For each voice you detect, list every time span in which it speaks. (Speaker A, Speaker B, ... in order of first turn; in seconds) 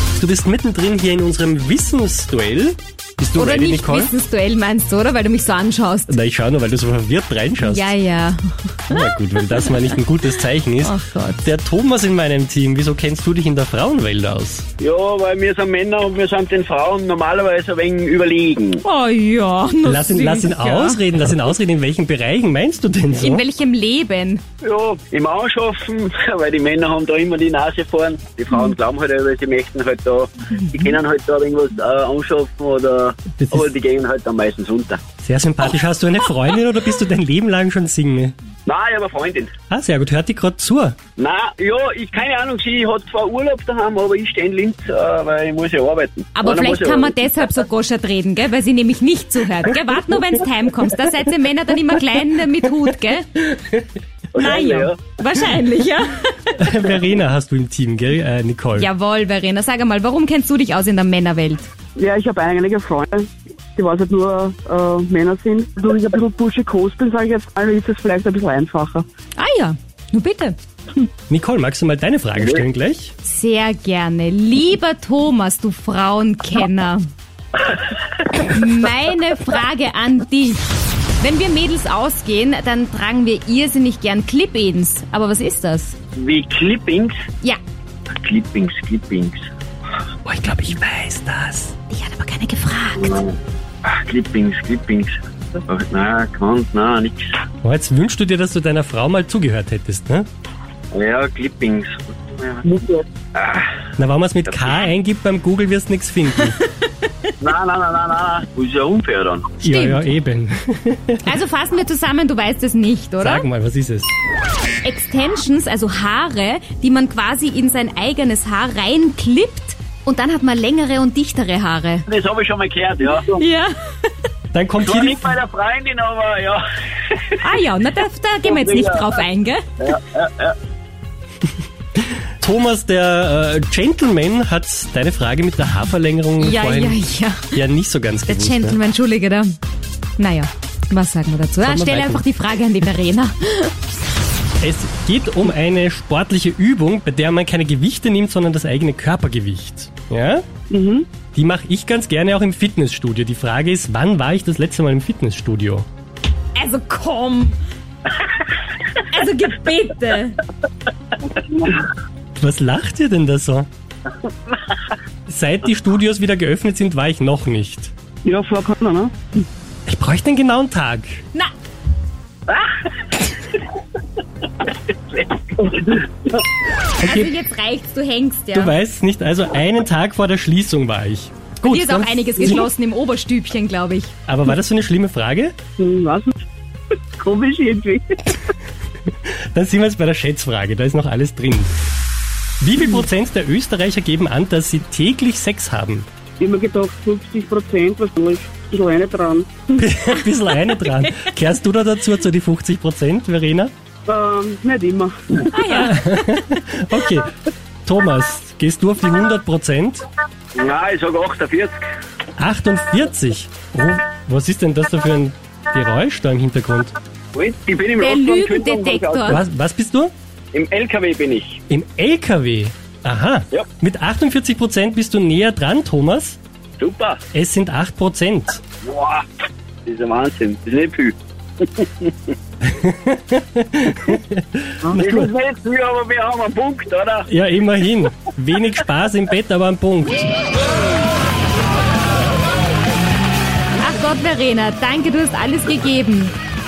Speaker A: 0.2-4.1, 6.1-7.9, 8.9-14.7, 19.8-23.5, 33.4-33.7, 35.2-38.3, 39.7-41.0, 56.6-58.9, 71.3-73.1, 90.2-91.8, 97.6-100.3, 104.0-106.6, 109.6-111.4, 113.2-114.1, 124.5-125.4, 132.4-137.0, 137.5-138.8, 141.6-142.2, 144.6-150.4, 151.3-155.9, 162.4-163.7, 165.3-167.9, 169.9-171.2, 177.0-177.3, 178.5-182.7, 184.3-185.6, 189.3-191.8, 192.6-196.1, 199.8-203.7, 205.6-207.3, 207.9-210.1, 212.4-216.9, 219.2-220.1, 221.7-226.4, 227.3-228.6, 232.6-235.3, 237.3-240.3
Speaker B: 3.4-6.2, 7.6-10.0, 10.8-11.5, 18.8-21.0, 23.2-24.4, 46.4-53.4, 54.4-56.6, 58.8-61.7, 69.4-70.6, 73.2-77.1, 78.4-80.6, 81.2-86.0, 91.9-93.2, 109.6-110.1, 111.2-113.5, 114.8-122.0, 123.2-124.1, 127.4-129.7, 136.4-137.6, 138.3-139.6, 140.2-143.7, 156.6-157.6, 159.0-160.4, 177.0-178.8, 181.6-184.1, 205.5-206.0, 218.0-219.4, 243.8-246.3
Speaker C: 14.8-18.8, 24.6-35.0, 38.7-39.5, 41.2-47.1, 54.3-55.0, 86.2-87.2, 88.2-89.4, 93.0-95.1, 95.7-97.4, 100.9-103.7, 107.4-109.6, 122.1-123.4, 124.8-127.4, 128.5-129.1, 129.8-130.6, 175.1-175.4, 210.6-211.8, 217.3-219.4, 220.5-221.6, 226.8-227.2, 228.8-229.3, 229.9-232.3, 235.0-237.3
Speaker D: 54.5-54.9, 62.0-69.0, 150.7-151.1, 168.2-169.1, 175.6-176.0, 185.8-186.4, 187.2-188.4, 196.4-199.8, 204.1-205.5